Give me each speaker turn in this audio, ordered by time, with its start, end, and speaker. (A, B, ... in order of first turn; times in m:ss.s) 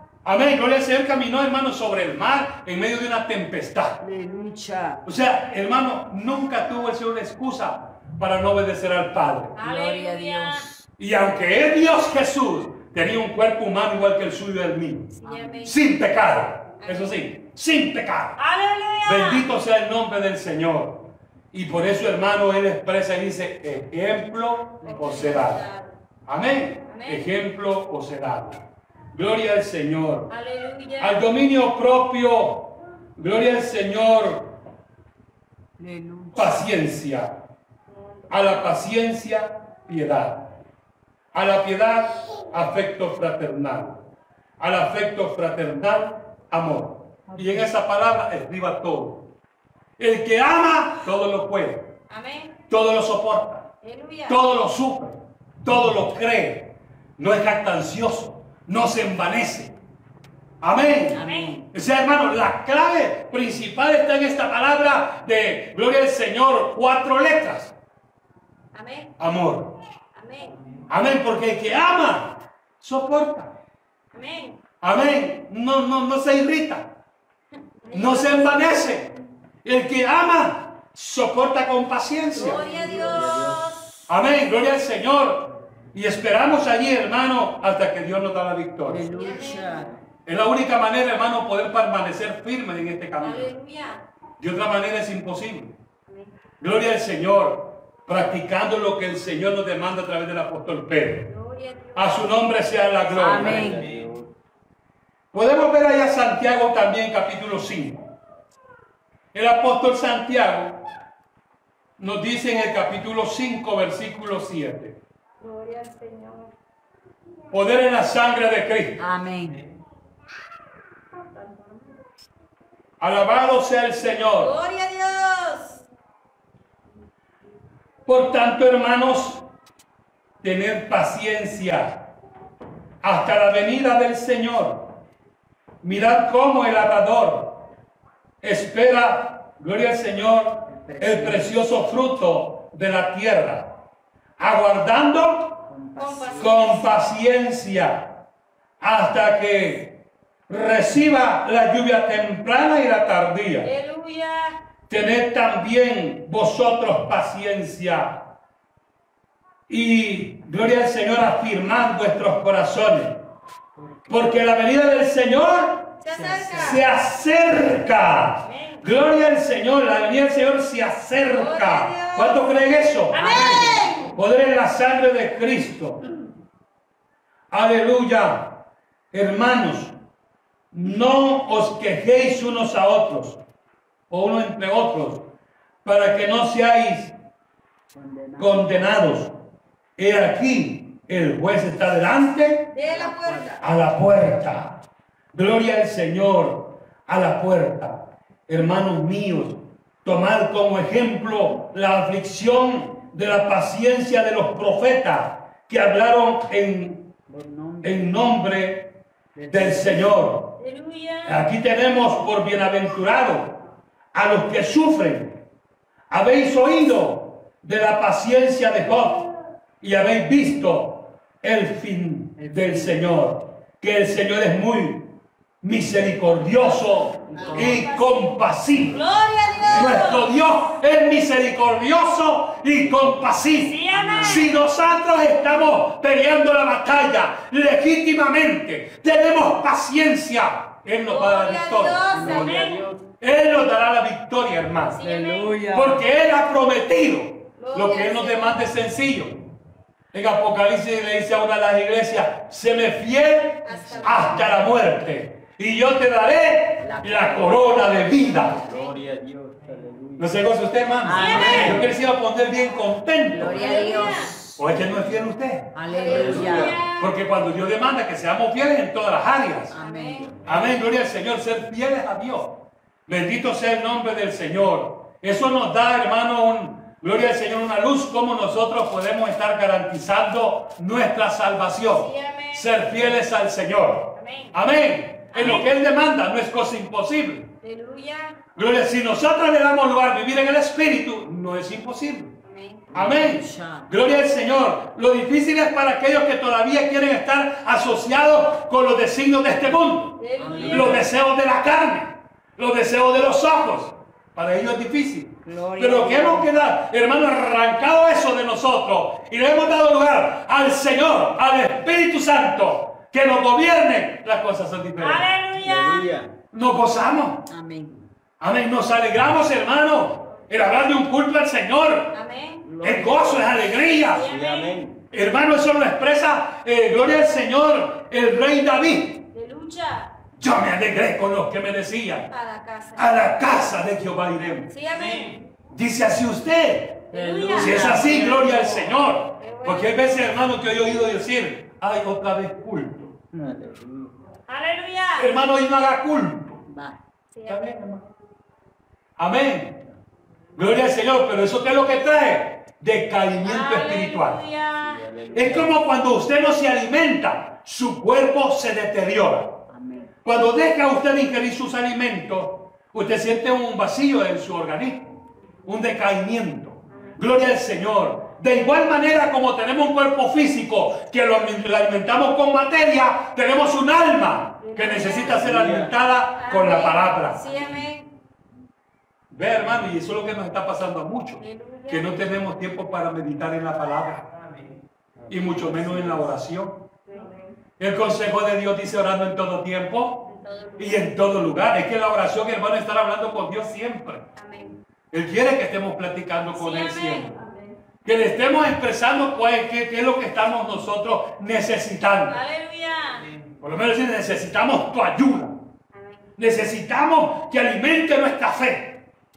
0:00.2-0:04.0 A
0:04.0-0:05.0 B
0:05.0-0:09.6 A
0:09.6-0:10.6 C
0:09.6-0:10.9 B
0:11.0-0:18.4 A
0:15.2-0:15.8 C
0:15.2-0:15.6 B
0:16.8-0:17.2 C
0:18.4-0:19.5 C
0:19.0-0:25.6 A
0:24.8-0:25.3 B
0:24.8-0:25.9 C
0:26.3-0:30.3 A
0:26.9-0:27.2 C
0:30.3-0:31.2 C
0:31.0-0:34.5 A
0:35.8-0:36.5 B
0:36.3-0:37.3 A
0:38.3-0:40.5 A
0:41.3-0:44.0 A
0:44.6-0:49.2 A
0:47.3-0:47.6 B
0:50.0-0:51.9 A
0:52.1-0:52.6 C
0:52.7-0:53.7 A
0:53.8-0:54.4 C
0:54.3-0:59.7 A
1:00.6-1:07.7 A
1:01.1-1:01.7 B
1:01.2-1:01.6 C
1:08.7-1:09.2 C
1:09.2-1:09.8 A
1:10.1-1:10.6 C
1:10.9-1:13.5 A
1:14.1-1:14.6 C
1:14.8-1:16.9 A
1:17.8-1:18.7 C
1:17.9-1:19.1 A
1:19.6-1:22.6 A
1:22.3-1:23.8 C
1:22.3-1:23.5 B
1:23.1-1:23.8 D
1:24.1-1:29.1 A
1:28.8-1:29.9 B
1:29.1-1:29.8 C
1:29.7-1:30.0 D
1:30.2-1:33.5 A
1:33.2-1:34.0 C
1:34.4-1:35.7 A
1:36.6-1:41.3 A
1:41.2-1:42.4 C
1:41.9-1:43.8 A
1:43.1-1:43.8 B
1:43.3-1:44.3 D
1:45.3-1:48.1 A
1:49.3-1:50.8 A
1:52.0-1:55.0 A
1:55.4-1:56.5 C
1:57.5-1:59.0 A
1:59.0-1:59.6 B
2:01.2-2:01.9 C
2:03.0-2:04.5 A
2:04.3-2:05.8 C
2:08.0-2:09.4 A
2:10.4-2:12.0 A
2:13.0-2:14.9 A
2:15.8-2:17.6 A
2:18.4-2:23.7 A
2:20.7-2:21.5 B
2:24.4-2:25.6 A
2:25.7-2:26.6 B
2:26.0-2:26.9 C
2:26.4-2:28.1 A
2:28.8-2:30.0 A
2:30.5-2:33.7 A
2:33.6-2:34.6 C
2:34.9-2:38.2 A
2:39.7-2:43.2 A
2:44.1-2:45.9 A
2:46.0-2:46.8 C
2:46.1-2:46.8 B
2:46.6-2:56.0 A
2:48.4-2:48.8 C
2:51.3-2:52.4 C
2:53.1-2:54.1 C
2:53.1-2:54.0 B
2:57.5-2:58.6 A
2:59.1-2:59.9 A
3:00.7-3:03.4 A
3:04.1-3:05.2 A
3:05.8-3:07.1 A
3:07.9-3:08.8 B
3:08.4-3:09.3 A
3:10.0-3:12.7 A
3:12.7-3:13.6 C
3:12.8-3:13.6 B
3:13.6-3:14.8 A
3:15.3-3:27.1 A
3:27.3-3:28.2 B
3:27.8-3:28.9 A
3:29.3-3:30.2 B
3:29.5-3:30.5 A
3:30.6-3:31.5 C
3:31.2-3:33.6 A
3:34.1-3:35.4 A
3:36.1-3:39.3 A
3:39.8-3:45.1 A
3:42.4-3:43.0 B
3:45.6-3:49.0 A
3:47.3-3:48.0 B
3:47.3-3:48.4 C
3:48.9-3:50.4 C
3:49.7-4:05.0 A
3:53.5-3:54.5 C
3:53.9-3:54.5 B
4:01.1-4:02.8 C
4:02.1-4:03.0 B
4:04.9-4:05.6 C
4:05.0-4:06.0 B
4:05.7-4:09.4 A
4:07.6-4:08.7 C
4:10.1-4:18.6 A
4:13.6-4:14.5 C
4:13.7-4:14.5 B
4:16.8-4:17.7 B
4:18.5-4:20.4 D
4:18.5-4:18.9 C
4:20.2-4:23.8 A
4:21.0-4:21.9 B
4:21.1-4:21.8 C
4:21.3-4:21.9 D
4:23.3-4:24.6 B
4:23.4-4:24.3 C
4:24.6-4:25.7 A
4:25.7-4:26.8 B
4:25.9-4:27.1 C
4:26.0-4:26.8 D
4:27.0-4:29.7 A
4:29.7-4:30.4 B
4:29.8-4:30.3 C
4:30.4-4:30.6 D
4:30.4-4:47.5 A
4:41.9-4:42.8 C
4:44.2-4:44.5 C
4:45.3-4:45.7 C
4:47.6-4:48.4 C
4:48.5-4:52.3 A
4:52.4-4:52.8 C
4:52.9-5:15.3 A
4:53.0-4:53.9 B
5:00.2-5:01.0 C
5:00.4-5:01.0 B
5:05.4-5:06.5 B
5:15.0-5:16.1 C
5:15.6-5:16.4 D
5:16.5-5:17.4 A
5:17.5-5:18.1 B
5:18.4-5:22.2 A
5:22.1-5:22.6 C
5:22.6-5:23.5 B
5:22.8-5:24.3 A
5:24.0-5:24.7 C
5:24.2-5:25.0 D
5:25.1-5:29.2 A
5:29.3-5:30.1 C
5:30.4-5:32.3 A
5:32.3-5:33.3 C
5:33.0-5:34.7 A
5:34.7-5:35.4 C
5:35.7-5:43.1 A
5:37.1-5:38.0 C
5:37.1-5:38.9 B
5:39.4-5:40.2 C
5:43.3-5:44.2 D
5:44.5-5:45.3 C
5:45.2-5:46.6 A
5:46.7-5:47.0 B
5:47.3-5:47.7 C
5:47.5-5:48.0 A
5:49.2-5:49.8 A
5:50.6-5:54.4 A
5:53.4-5:55.0 C
5:54.8-5:55.7 D
5:55.3-5:59.6 A
5:59.7-6:00.1 B
6:00.2-6:17.4 A
6:14.6-6:15.4 C
6:15.1-6:15.9 D
6:16.4-6:18.1 C
6:19.3-6:24.3 A
6:21.4-6:22.3 C
6:25.2-6:26.3 D
6:25.3-6:26.8 A
6:27.8-6:34.2 A
6:30.3-6:31.2 C
6:34.4-6:34.8 C
6:35.1-6:37.3 A
6:36.5-6:37.6 C
6:38.0-6:42.4 A
6:42.2-6:43.3 C
6:43.6-6:45.6 A
6:45.9-6:46.3 C
6:46.4-6:49.0 A